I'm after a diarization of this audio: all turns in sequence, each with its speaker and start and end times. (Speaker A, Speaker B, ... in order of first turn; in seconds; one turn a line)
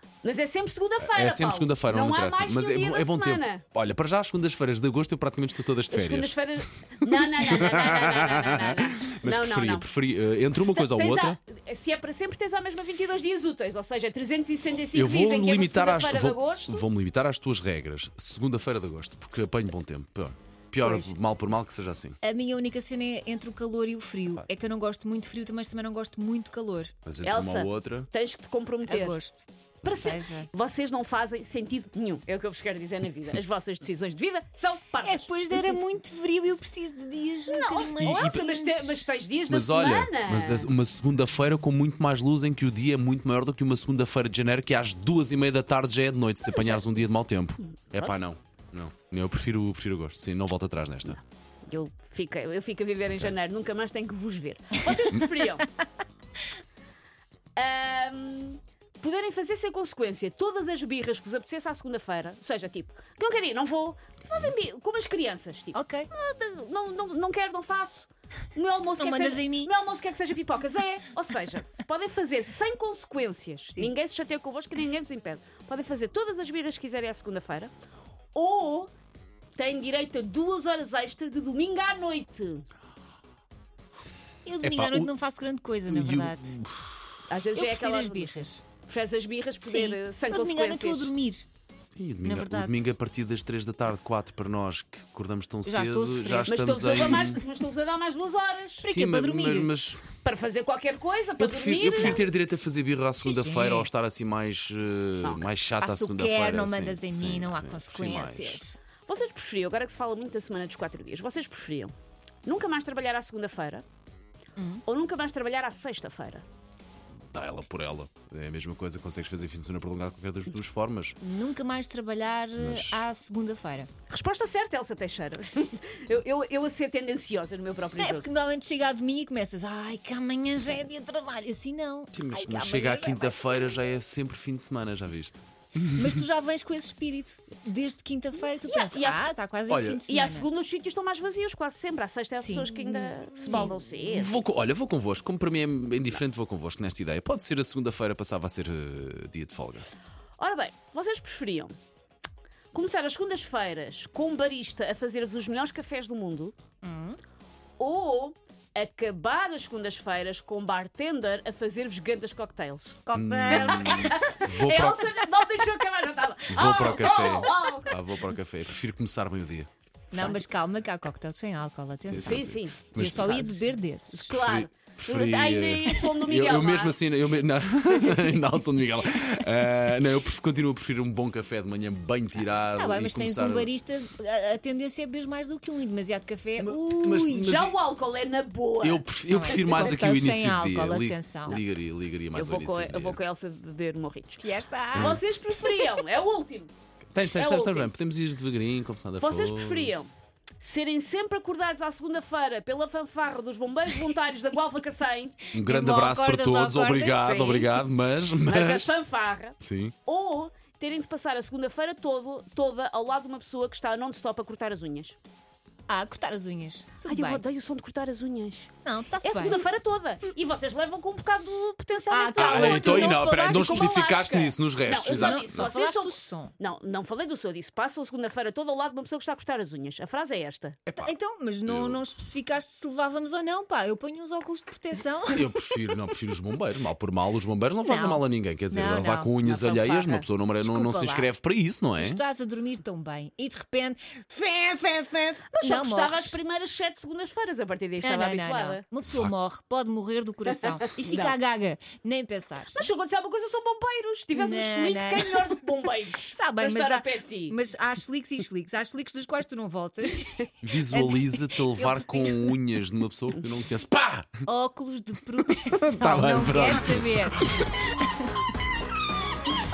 Speaker A: 0.2-3.6
Speaker B: 1.0-6.4
Speaker A: 5.9-9.9
Speaker B: 7.0-11.4
Speaker A: 10.6-16.9
Speaker B: 14.9-22.2
Speaker C: 20.8-21.1
Speaker C: 22.2-26.9
Speaker B: 27.1-28.1
Speaker A: 27.2-29.2
Speaker C: 28.8-30.5
Speaker A: 29.8-35.7
Speaker C: 35.0-39.1
Speaker A: 37.5-40.7
Speaker B: 37.8-38.4
Speaker B: 39.5-51.2
Speaker A: 46.5-46.9
Speaker A: 47.6-48.1
Speaker A: 51.1-55.7
Speaker A: 57.6-77.7
Speaker C: 65.7-66.1
Speaker C: 69.0-69.7
Speaker A: 78.3-78.9
Speaker A: 79.6-82.7
Speaker C: 84.5-86.6
Speaker B: 84.6-85.1
Speaker B: 85.9-87.1
Speaker A: 87.3-91.1
Speaker C: 87.5-88.6
Speaker C: 89.6-91.5
Speaker B: 92.0-97.4
Speaker C: 92.2-92.9
Speaker C: 95.7-97.4
Speaker A: 96.5-98.8
Speaker C: 98.8-99.7
Speaker B: 98.8-100.1
Speaker A: 100.2-102.2
Speaker B: 101.4-108.7
Speaker C: 103.2-103.9
Speaker C: 105.8-108.8
Speaker A: 109.1-111.9
Speaker A: 112.5-113.8
Speaker C: 114.6-114.8
Speaker A: 114.9-116.5
Speaker B: 117.3-121.2
Speaker C: 121.2-123.9
Speaker B: 122.6-123.0
Speaker A: 124.1-128.3
Speaker C: 128.0-133.8
Speaker B: 132.1-136.2
Speaker C: 135.9-140.5
Speaker A: 138.6-139.3
Speaker B: 139.7-140.0
Speaker A: 140.0-144.4
Speaker C: 142.3-143.9
Speaker B: 143.4-149.9
Speaker A: 150.4-151.7
Speaker A: 152.7-156.5
Speaker C: 156.8-157.2
Speaker A: 157.8-163.0
Speaker C: 163.1-164.4
Speaker B: 163.1-165.2
Speaker A: 163.5-167.9
Speaker B: 166.5-169.7
Speaker C: 166.8-167.6
Speaker C: 170.1-174.3
Speaker B: 172.1-173.7
Speaker A: 172.2-172.8
Speaker A: 174.1-177.0
Speaker B: 174.2-183.7
Speaker C: 182.7-187.6
Speaker B: 186.6-187.8
Speaker A: 187.5-190.0
Speaker B: 188.8-193.2
Speaker C: 189.3-191.6
Speaker A: 192.3-194.4
Speaker C: 194.4-195.2
Speaker A: 194.9-196.7
Speaker B: 194.9-195.2
Speaker B: 197.1-200.1
Speaker A: 197.3-197.9
Speaker A: 199.2-205.4
Speaker B: 205.5-208.9
Speaker C: 205.5-207.5
Speaker A: 207.2-207.7
Speaker A: 208.4-215.2
Speaker B: 209.6-209.9
Speaker C: 215.9-217.4
Speaker A: 217.0-218.7
Speaker C: 218.8-219.7
Speaker A: 219.2-230.8
Speaker C: 222.1-226.5
Speaker B: 222.4-225.7
Speaker C: 230.9-235.6
Speaker B: 231.7-232.0
Speaker B: 235.3-242.2
Speaker C: 237.8-239.3
Speaker A: 239.4-240.3
Speaker C: 240.6-241.3
Speaker C: 242.0-246.4
Speaker A: 245.5-248.8
Speaker C: 248.0-252.9
Speaker B: 249.1-249.3
Speaker A: 250.5-251.4
Speaker A: 252.7-257.6
Speaker C: 254.3-255.6
Speaker C: 256.3-262.6
Speaker B: 260.6-264.4
Speaker C: 264.5-268.3
Speaker B: 265.4-267.7